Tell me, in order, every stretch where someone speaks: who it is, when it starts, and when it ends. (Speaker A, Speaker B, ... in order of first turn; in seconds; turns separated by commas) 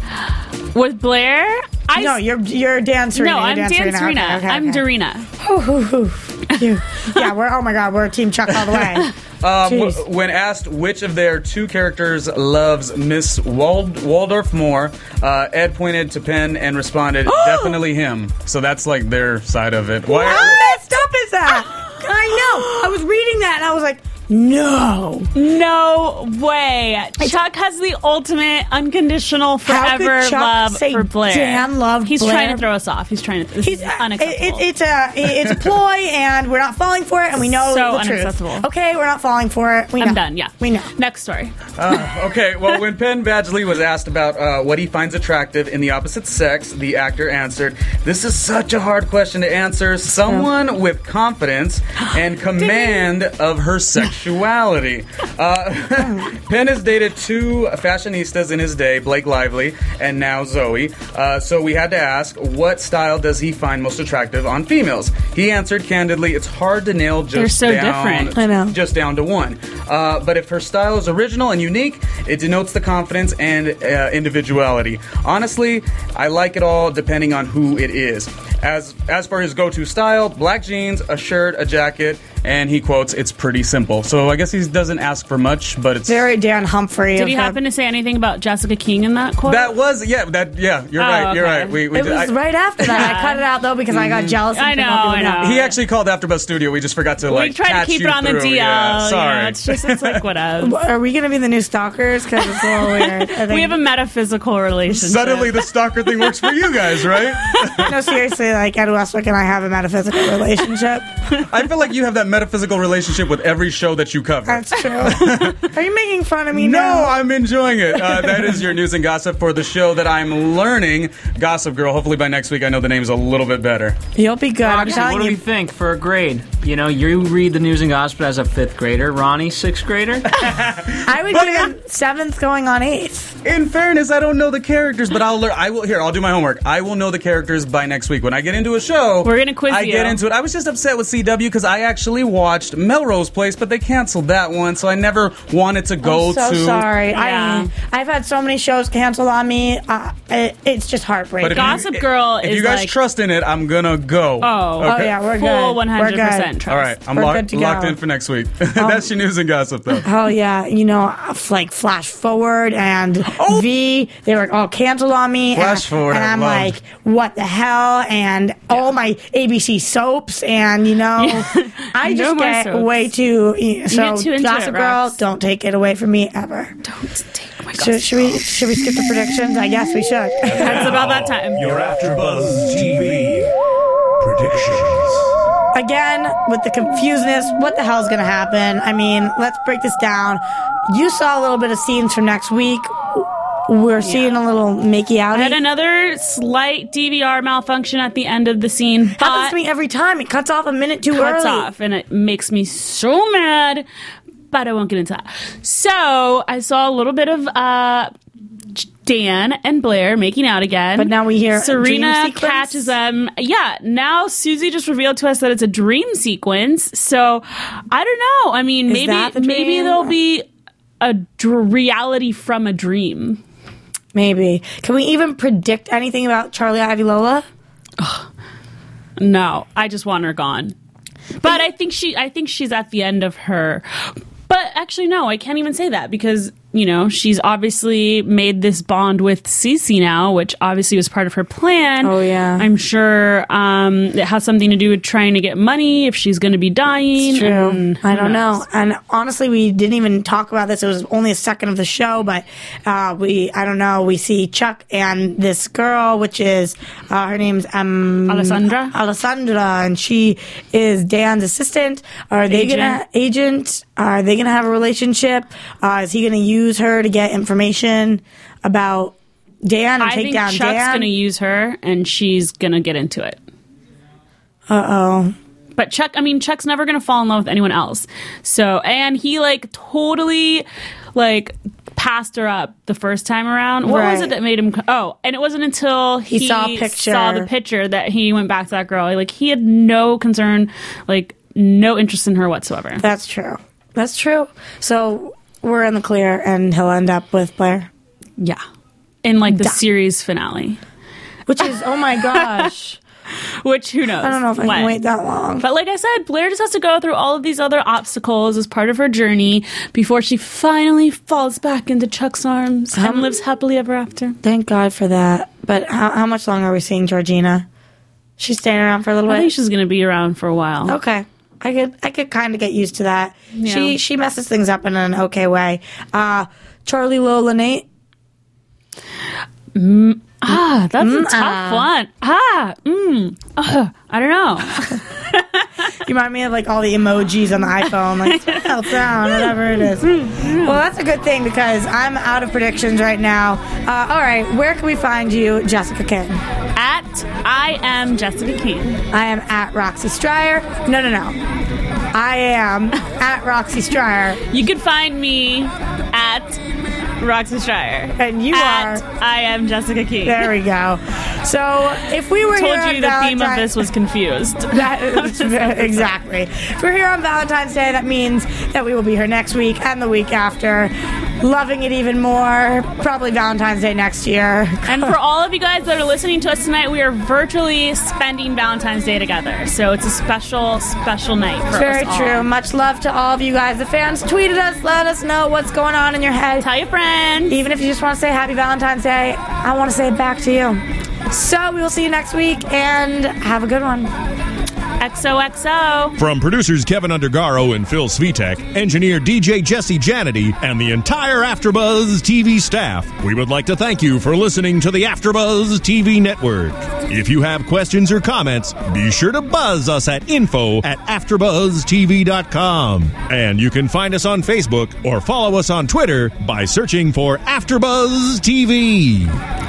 Speaker A: 0.7-2.2, Speaker B: 1.9-4.8, Speaker A: 3.1-5.3, Speaker B: 5.4-10.0, Speaker C: 9.4-20.7, Speaker B: 17.3-17.8, Speaker B: 20.1-25.3, Speaker A: 25.3-34.7, Speaker B: 29.6-32.6, Speaker B: 33.6-40.9, Speaker A: 37.6-38.7, Speaker A: 40.0-41.6, Speaker C: 41.8-86.2, Speaker B: 56.0-56.3, Speaker A: 67.3-68.4, Speaker B: 68.3-68.8, Speaker B: 86.1-87.6, Speaker A: 87.2-89.8, Speaker C: 89.5-92.3, Speaker A: 91.0-91.8, Speaker B: 91.9-95.6, Speaker C: 92.8-93.1, Speaker A: 92.9-93.4, Speaker C: 93.9-94.4, Speaker A: 94.5-95.8, Speaker C: 95.4-100.2, Speaker A: 97.3-100.8, Speaker B: 100.6-103.8, Speaker A: 102.5-105.6, Speaker C: 104.9-108.0, Speaker B: 107.6-111.1, Speaker C: 111.3-115.7, Speaker B: 114.5-117.2, Speaker C: 116.5-124.0, Speaker B: 124.2-125.4, Speaker D: 124.6-130.3, Speaker C: 130.3-131.7, Speaker B: 131.1-133.4, Speaker C: 133.4-146.9, Speaker A: 139.2-140.2, Speaker B: 146.0-151.8, Speaker A: 147.1-147.7, Speaker C: 151.4-155.2, Speaker A: 151.5-152.9, Speaker A: 154.4-157.0, Speaker B: 154.8-156.6, Speaker C: 156.7-160.1, Speaker B: 157.1-158.0, Speaker B: 158.8-159.1, Speaker B: 160.0-176.8, Speaker C: 163.3-163.7, Speaker C: 165.6-166.7, Speaker A: 171.2-173.0, Speaker A: 173.9-175.2, Speaker A: 176.8-178.5, Speaker B: 177.7-181.0, Speaker E: 180.5-183.5, Speaker A: 180.5-181.6, Speaker E: 184.2-185.3, Speaker B: 185.7-195.6, Speaker A: 194.0-194.4, Speaker A: 195.3-199.6, Speaker B: 199.2-201.7, Speaker A: 201.1-203.8, Speaker A: 204.5-208.1, Speaker A: 208.8-220.5, Speaker B: 211.0-212.9, Speaker B: 218.9-220.2, Speaker A: 221.0-223.4, Speaker B: 224.1-227.5, Speaker A: 228.0-228.3, Speaker A: 229.2-230.8, Speaker A: 231.4-248.6, Speaker B: 242.0-242.7, Speaker B: 247.2-271.1, Speaker A: 258.3-258.9, Speaker A: 262.5-263.0, Speaker A: 270.0-273.4, Speaker B: 274.7-275.4, Speaker A: 275.8-293.0, Speaker B: 283.8-284.3, Speaker B: 286.3-287.5, Speaker B: 293.0-297.9, Speaker A: 299.2-300.8, Speaker B: 299.5-299.8, Speaker B: 301.5-303.0, Speaker A: 301.6-302.7, Speaker A: 303.6-305.0, Speaker B: 304.2-305.6, Speaker A: 305.6-314.4, Speaker B: 312.9-313.3, Speaker B: 314.4-317.7, Speaker B: 318.4-319.5, Speaker A: 319.3-321.0, Speaker B: 320.9-327.9, Speaker A: 323.5-324.0, Speaker A: 329.7-335.7, Speaker B: 331.0-331.9, Speaker B: 336.0-346.4, Speaker A: 338.2-340.8, Speaker A: 346.8-349.0, Speaker B: 349.1-351.4, Speaker B: 352.1-354.4, Speaker A: 354.5-356.6, Speaker A: 357.2-360.5, Speaker B: 358.2-359.0, Speaker B: 360.2-363.9, Speaker A: 362.5-366.1, Speaker B: 364.7-375.1, Speaker A: 374.9-382.5, Speaker B: 381.7-386.7, Speaker A: 386.6-387.6, Speaker B: 387.5-394.1, Speaker A: 395.0-396.2, Speaker E: 396.2-419.4